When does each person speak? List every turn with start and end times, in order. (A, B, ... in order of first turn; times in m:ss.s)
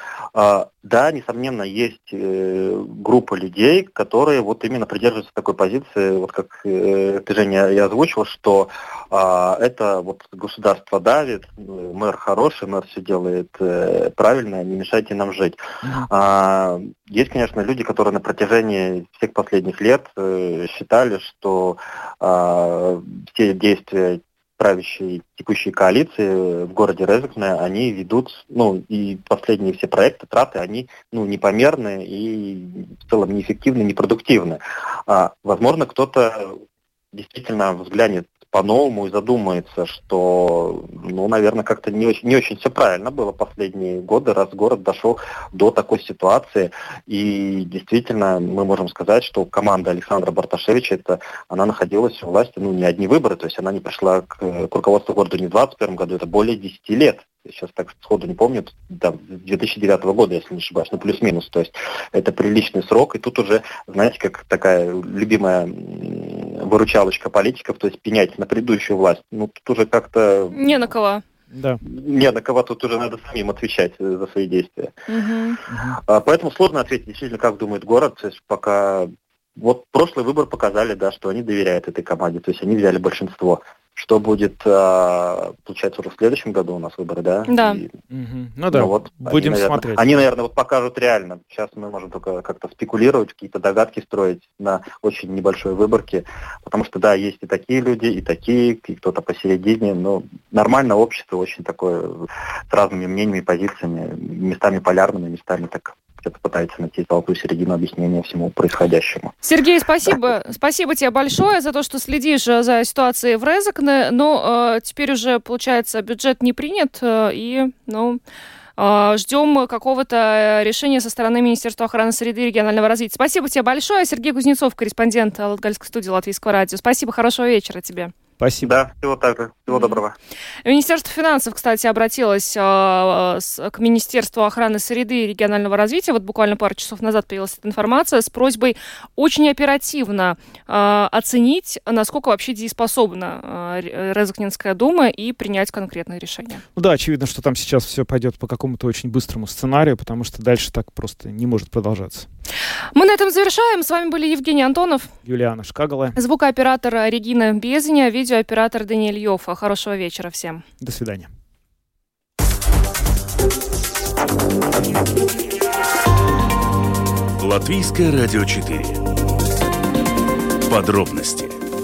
0:00.3-0:15.6 A
0:16.1-0:36.6 A
0:37.1-1:10.6 A
1:10.5-1:11.2 B
1:11.5-1:11.8 C
1:11.8-1:15.0 A
1:15.1-1:15.6 B
1:15.7-1:16.0 C
1:16.0-1:27.9 A
1:27.5-1:27.8 B
1:28.1-1:30.1 C
1:28.7-1:49.3 A
1:49.4-1:58.2 B
1:58.8-2:08.1 B
2:08.4-2:08.7 C
2:08.6-2:10.1 A
2:10.6-2:26.6 B
2:26.8-2:32.3 C
2:32.9-2:35.1 B
2:35.2-2:36.2 C
2:36.2-2:40.6 B
2:40.8-2:41.3 C
2:47.4-2:49.0 D
2:50.7-2:51.6 D